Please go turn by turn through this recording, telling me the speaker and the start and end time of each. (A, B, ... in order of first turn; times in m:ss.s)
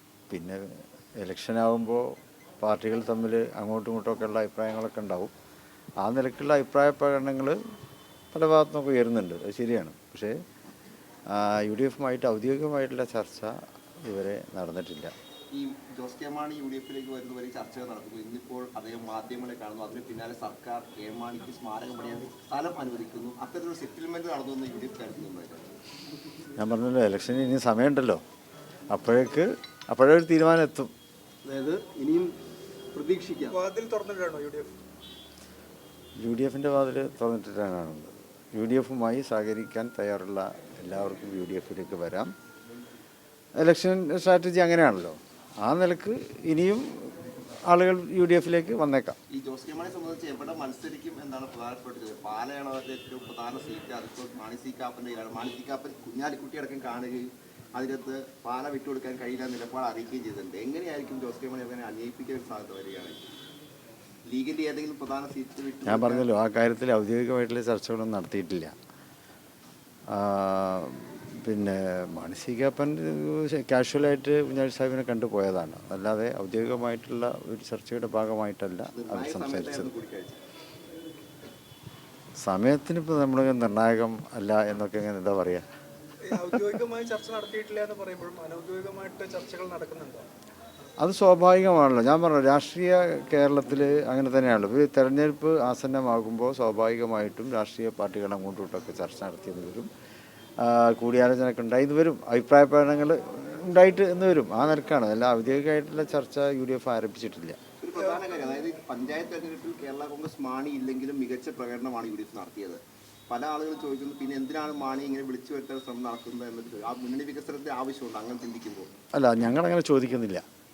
0:00.3-0:00.6 A
0:01.2-0:02.0 A
0:02.6-0:05.3 A
0:06.0-0:07.6 A
0:08.3-0:10.3 A
0:11.3-0:13.5 A
0:14.0-0:15.1 A
0:15.5-0:25.6 B
0:26.6-0:28.2 A
0:28.9-0:30.9 A
0:33.5-0:34.7 C
0:36.2-0:42.3 A
0:43.6-0:49.2 A
0:49.3-1:03.2 B
1:04.3-1:06.3 B
1:05.9-1:08.7 A
1:10.1-1:19.9 A
1:18.9-1:20.4 B
1:22.4-1:25.7 A
1:26.2-1:30.3 C
1:31.0-1:39.9 A
1:40.6-1:47.6 A
1:47.8-1:58.9 B
1:59.2-2:00.4 A